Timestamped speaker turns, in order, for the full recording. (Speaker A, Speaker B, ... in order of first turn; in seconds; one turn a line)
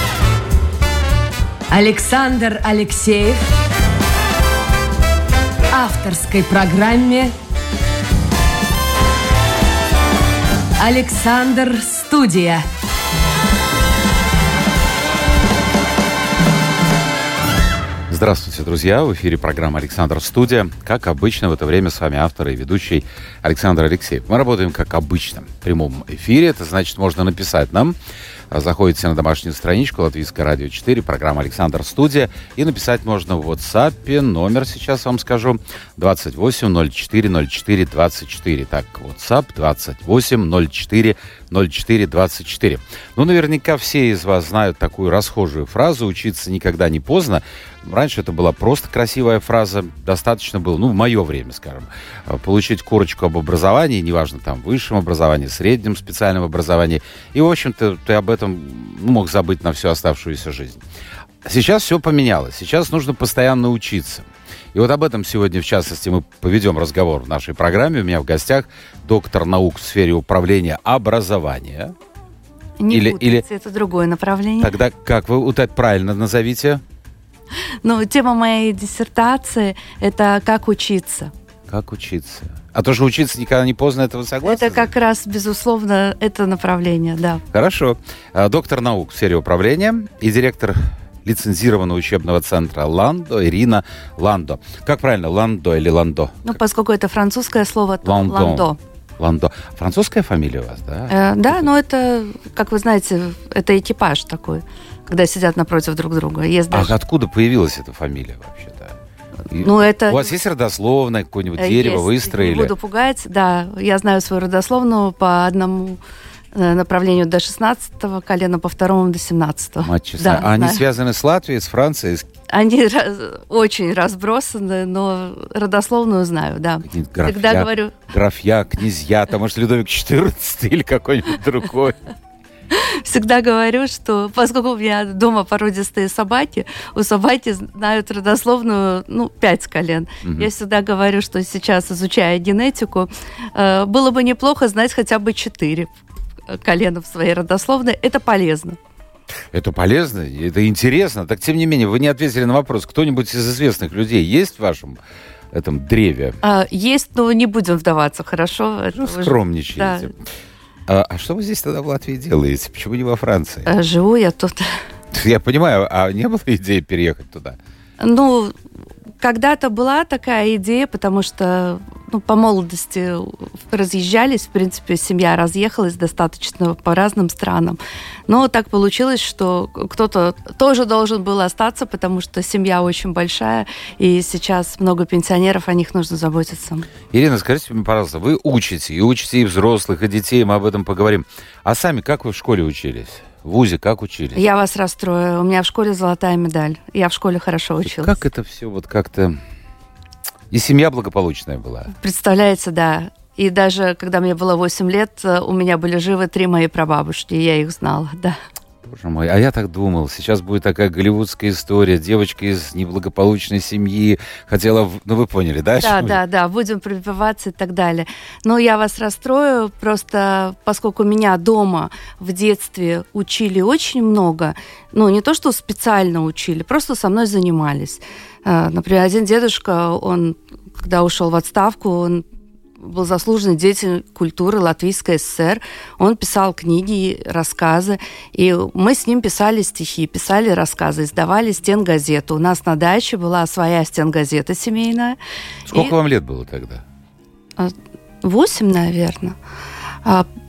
Speaker A: 1.7-3.5
Speaker A: 5.7-7.3
Speaker A: 10.8-12.7
Speaker B: 18.1-27.9
Speaker B: 28.5-60.8
Speaker B: 61.4-71.9
Speaker C: 72.8-74.7
Speaker B: 72.9-73.4
Speaker B: 74.6-76.8
Speaker C: 77.8-81.3
Speaker B: 81.7-84.9
Speaker C: 84.4-87.4
Speaker B: 87.5-96.6
Speaker C: 96.4-98.8
Speaker B: 98.0-98.7
Speaker B: 99.2-101.7
Speaker C: 101.1-106.9
Speaker B: 106.7-109.0
Speaker B: 109.5-112.7
Speaker C: 109.5-110.3
Speaker C: 111.6-116.0
Speaker C: 116.5-120.8
Speaker B: 119.8-122.3
Speaker C: 122.5-128.0
Speaker B: 126.8-132.0
Speaker C: 132.7-145.9
Speaker B: 140.2-140.5
Speaker C: 146.5-148.8
Speaker B: 149.5-155.0
Speaker B: 155.5-156.4
Speaker C: 156.4-160.1
Speaker B: 158.9-160.2
Speaker B: 160.9-163.7
Speaker C: 163.7-164.8
Speaker B: 165.1-167.6
Speaker C: 168.0-168.5
Speaker C: 169.2-186.9
Speaker B: 187.1-194.4
Speaker C: 194.3-198.2
Speaker B: 197.8-199.4
Speaker B: 200.5-201.9
Speaker C: 201.9-208.4
Speaker B: 208.8-216.2
Speaker C: 215.8-232.2
Speaker C: 232.8-245.2
Speaker B: 245.7-246.8
Speaker C: 247.6-249.3